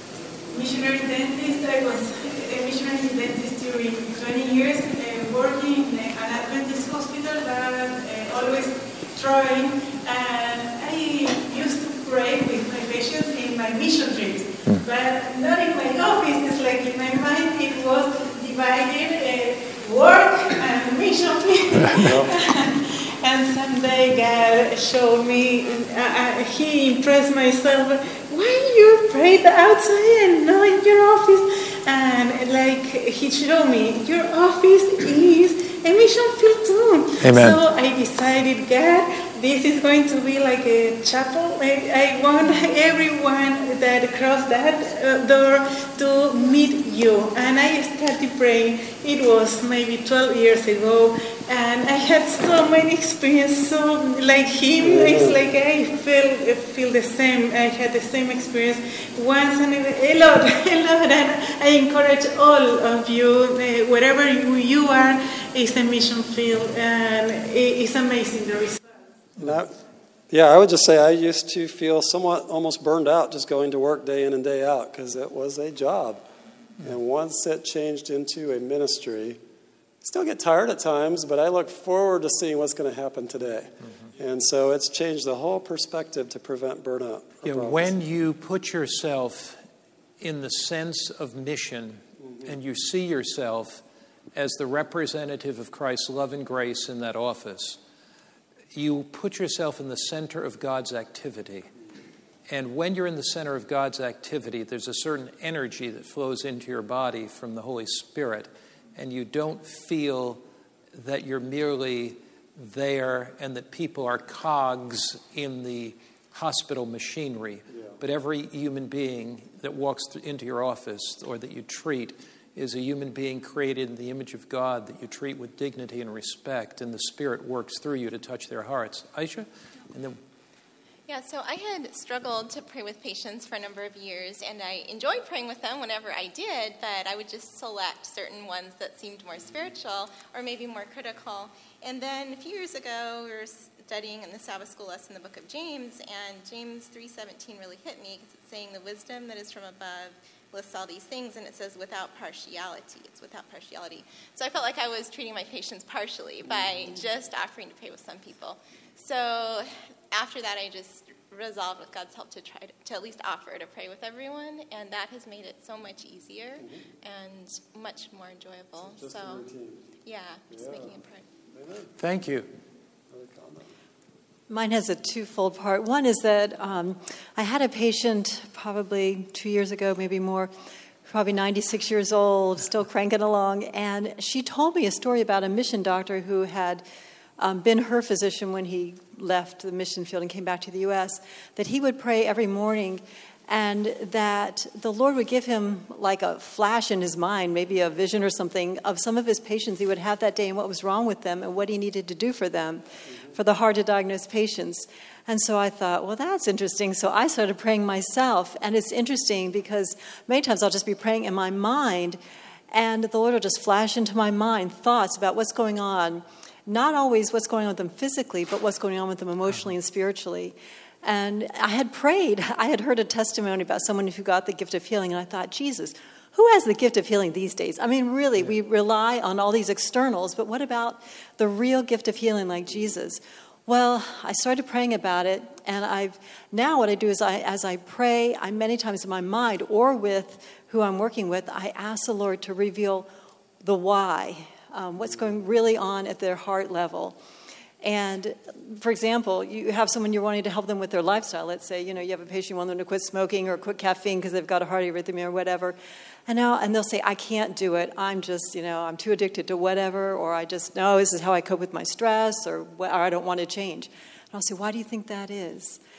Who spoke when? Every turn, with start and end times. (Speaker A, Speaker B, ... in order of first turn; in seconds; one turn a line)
Speaker A: 0.5-68.9
Speaker B: 22.0-22.3
Speaker C: 37.2-37.6
Speaker B: 54.8-55.4
Speaker B: 69.4-69.7
Speaker B: 70.3-76.2
Speaker B: 76.8-79.4
Speaker B: 80.0-87.9
Speaker C: 87.4-89.6
Speaker C: 90.2-97.8
Speaker C: 98.7-101.7
Speaker C: 102.5-110.4
Speaker C: 110.9-130.2
Speaker D: 131.1-169.4
Speaker B: 169.0-169.8
Speaker D: 170.1-171.3
Speaker B: 170.5-170.9
Speaker B: 171.6-171.9
Speaker C: 172.0-172.5
Speaker B: 173.1-173.6
Speaker E: 174.5-180.5
Speaker E: 181.1-186.8
Speaker E: 187.4-212.2
Speaker E: 212.7-243.1
Speaker E: 243.6-247.2
Speaker E: 247.8-255.8
Speaker E: 256.3-265.8